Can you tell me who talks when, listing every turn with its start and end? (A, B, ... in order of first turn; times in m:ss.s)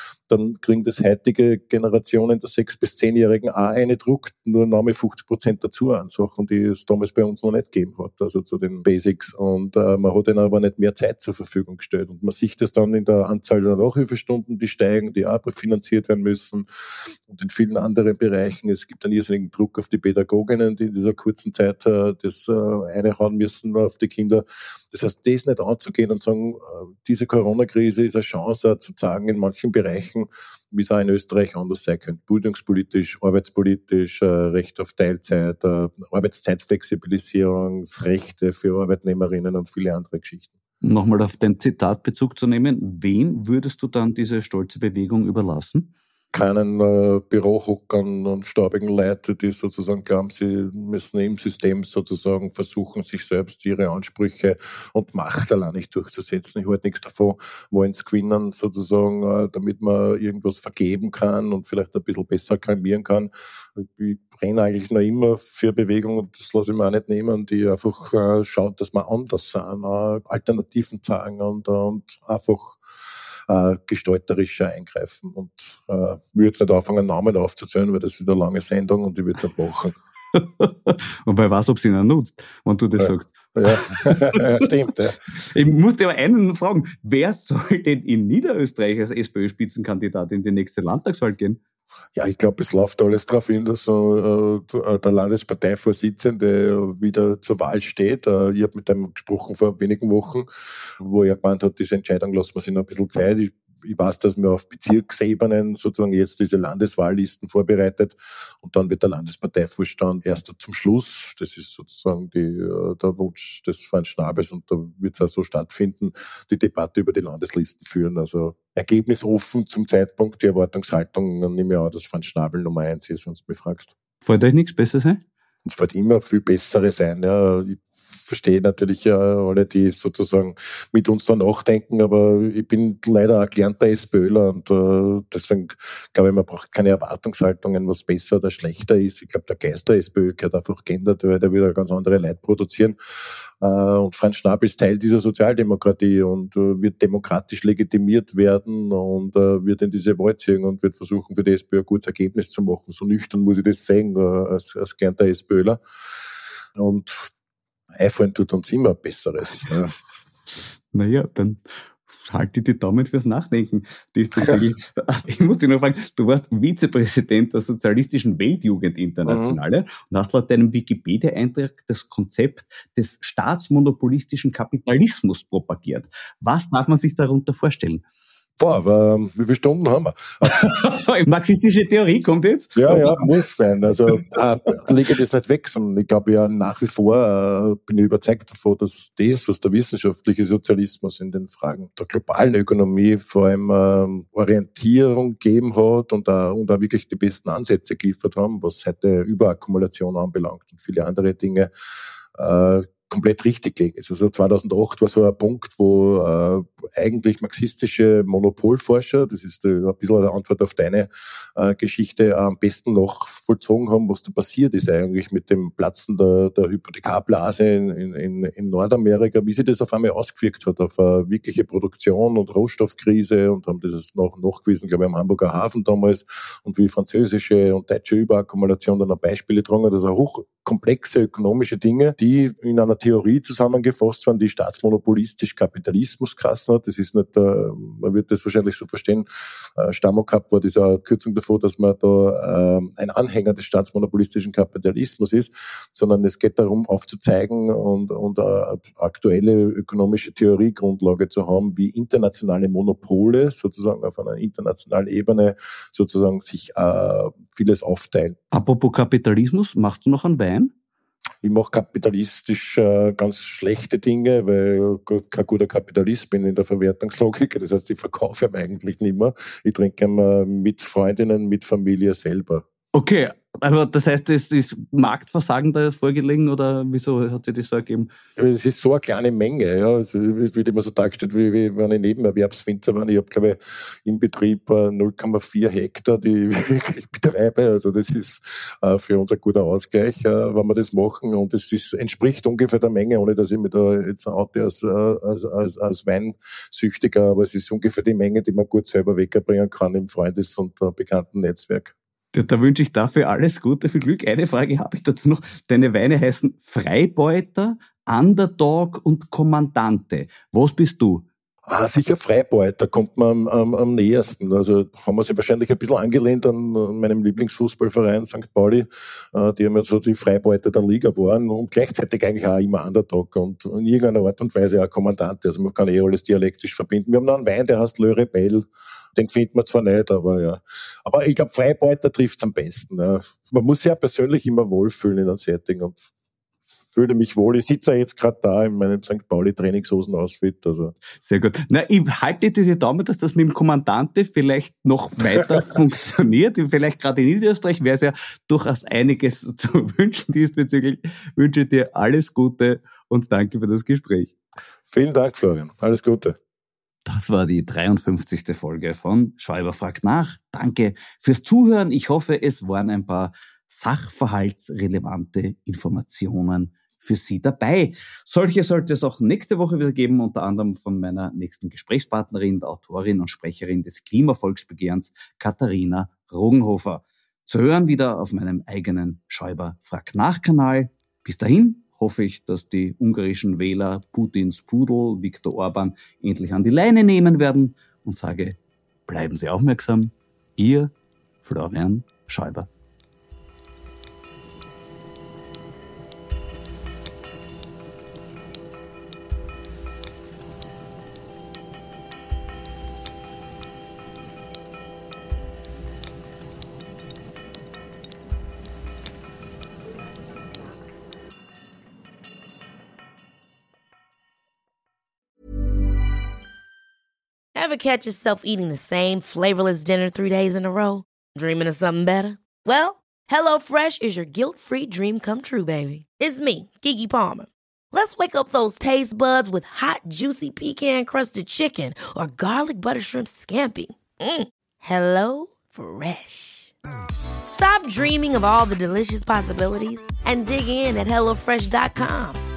0:00.3-0:40.5 A
0:40.8-0:45.9 B
0:46.3-1:20.0 A
1:20.4-1:24.7 B
1:23.0-1:25.2 A
1:25.4-1:31.6 B
1:32.2-2:03.9 A
2:04.2-2:05.2 B
2:05.6-2:35.8 A
2:36.8-2:37.3 A
2:38.0-2:40.0 A
2:40.9-2:58.0 B
2:44.4-2:44.6 A
2:49.3-2:49.6 A
2:58.6-3:00.7 A
3:00.4-3:03.2 B
3:02.8-3:21.7 A
3:22.4-4:18.4 A
4:18.5-4:20.7 B
4:21.4-4:32.6 A
4:32.9-4:38.1 B
4:38.4-5:01.9 A
5:02.3-5:11.3 B
5:11.7-5:36.0 A
5:36.9-5:41.0 A
5:41.2-5:54.3 B
5:54.9-5:56.4 A
5:57.1-6:32.7 B
6:57.6-7:16.7 C
7:17.5-7:22.4 C